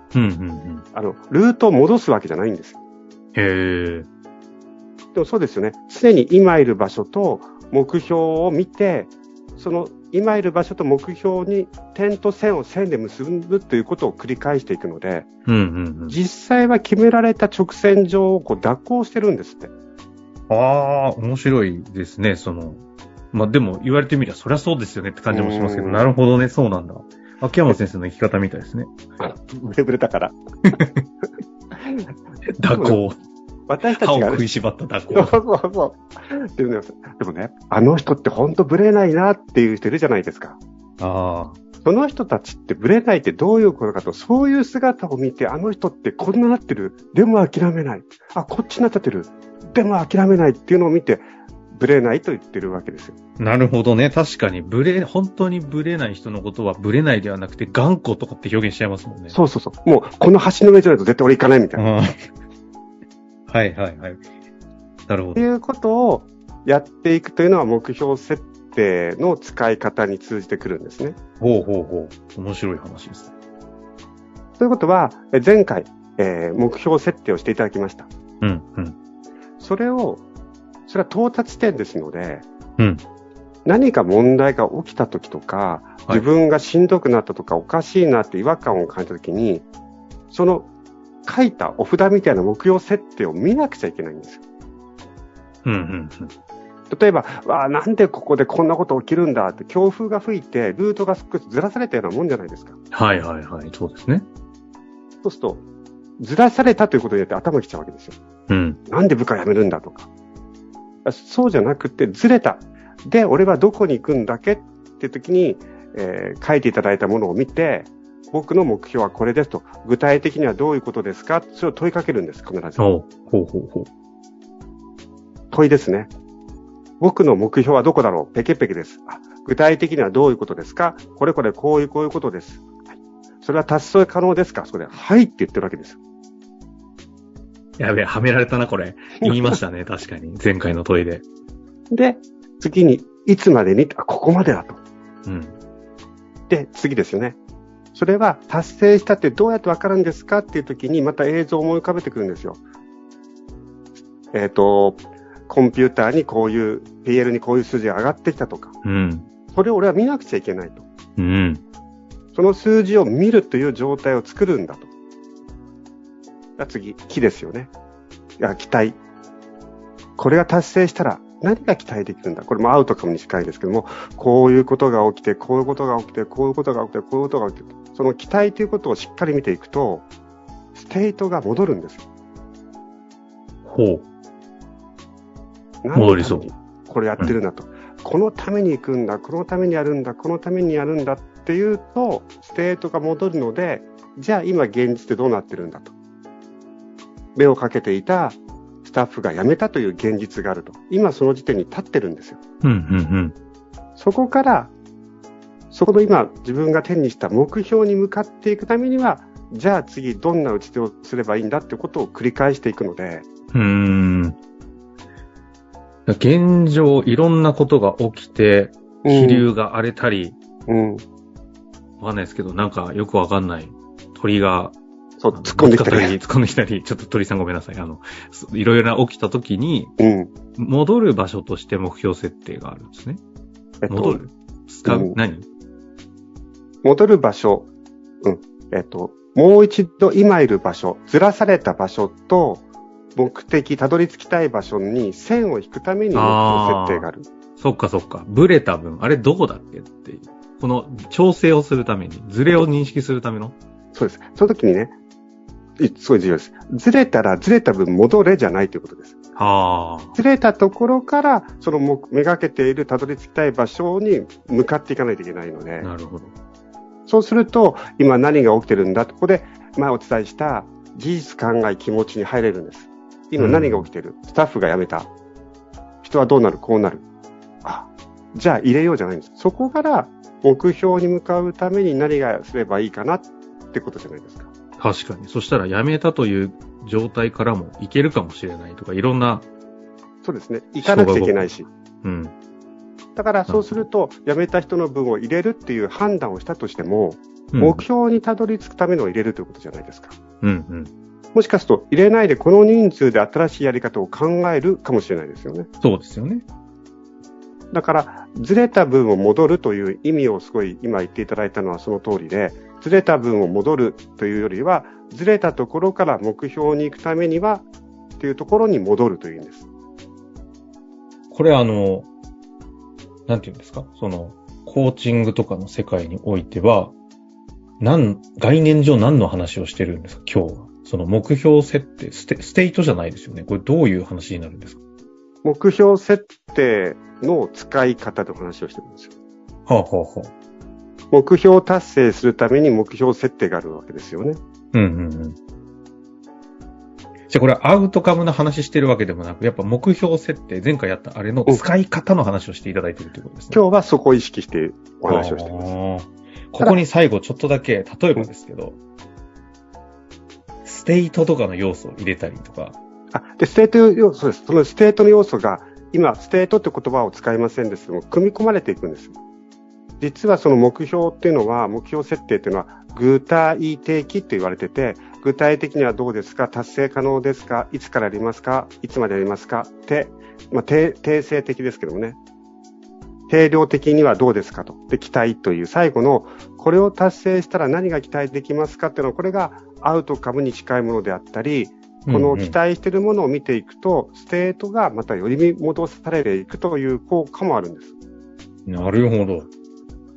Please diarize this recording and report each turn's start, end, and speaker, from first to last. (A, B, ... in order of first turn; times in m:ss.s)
0:00.1-0:00.8 A
0:00.9-0:02.8 B
0:03.3-0:04.1 A
0:05.1-0:15.3 B
0:15.4-0:16.2 A
0:16.1-0:19.7 B
0:20.5-0:28.9 A
0:25.3-0:26.0 B
0:29.2-0:30.4 B
0:30.7-0:31.0 A
0:31.7-0:32.1 B
0:32.4-0:33.2 A
0:32.7-0:33.0 B
0:33.7-0:34.4 B
0:34.0-0:35.4 A
0:35.1-0:40.6 B
0:41.0-0:41.6 A
0:41.8-0:53.1 B
0:53.4-0:59.4 A
0:59.3-1:01.8 B
1:01.8-1:02.3 A
1:03.5-1:04.2 A
1:05.1-1:05.4 A
1:05.4-1:11.2 B
1:11.4-1:13.3 A
1:14.6-1:18.1 B
1:18.4-1:18.9 A
1:19.6-1:20.2 B
1:20.9-1:22.4 B
1:23.6-1:29.6 B
1:30.3-1:30.7 B
1:31.2-1:34.4 B
1:35.6-1:36.3 A
1:36.9-1:42.8 B
1:42.9-1:44.3 A
1:45.2-1:45.6 B
1:46.2-1:48.2 B
1:48.5-1:48.8 A
1:48.9-1:50.1 B
1:51.0-2:02.8 B
2:02.8-2:03.9 A
2:05.5-2:06.1 B
2:07.0-2:12.8 B
2:13.4-2:16.0 B
2:17.8-2:21.2 A
2:19.2-2:19.6 B
2:21.9-2:24.8 B
2:25.2-2:25.5 A
2:26.5-2:27.4 B
2:27.9-2:32.6 B
2:34.3-2:38.7 B
2:38.8-2:39.3 A
2:39.5-2:40.8 B
2:41.2-2:41.6 A
2:42.3-2:44.9 B
2:46.6-2:47.7 B
2:48.4-2:49.0 B
2:50.2-3:00.0 B
3:00.7-3:02.0 B
3:03.6-3:04.0 A
3:05.8-3:15.9 B
3:05.9-3:06.5 A
3:17.3-3:22.4 B
3:22.6-3:23.3 A
3:24.0-3:24.7 B
3:25.7-3:33.2 B
3:33.5-3:34.4 A
3:36.1-3:40.4 A
3:39.0-3:39.5 B
3:40.7-3:41.0 B
3:42.0-3:44.8 A
3:45.2-3:46.2 B
3:45.3-3:49.9 A
3:50.0-3:50.3 B
3:50.6-3:53.2 A
3:53.8-3:54.2 B
3:53.9-3:55.5 A
3:54.8-3:55.2 B
3:56.8-3:57.7 B
3:58.2-4:02.6 B
4:03.2-4:07.3 B
4:06.1-4:13.6 A
4:13.9-4:14.9 B
4:15.8-4:19.1 B
4:19.4-4:20.1 A
4:20.1-4:25.9 B
4:25.8-4:26.3 A
4:27.1-4:35.1 B
4:33.4-4:33.9 A
4:36.0-4:37.0 B
4:37.6-4:44.5 B
4:44.8-4:49.4 A
4:50.2-4:51.7 B
4:50.8-4:51.5 A
4:52.0-4:52.3 A
4:53.2-5:00.2 B
4:53.5-4:53.8 A
4:57.5-4:57.8 A
5:00.4-5:00.9 A
5:01.3-5:05.7 B
5:05.8-5:06.4 A
5:07.7-5:17.6 B
5:18.2-5:19.6 B
5:21.3-5:22.1 A
5:23.3-5:26.9 A
5:27.8-5:34.8 A
5:35.4-5:39.1 B
5:39.7-5:40.3 A
5:41.1-5:44.4 B
5:44.7-5:45.4 A
5:47.3-5:53.6 A
5:53.5-5:55.7 B
5:55.1-5:58.8 A
6:00.6-6:02.8 A
6:03.1-6:09.1 B
6:10.0-6:22.2 B
6:23.3-6:38.0 B
6:32.0-6:32.6 A
6:38.6-6:39.5 A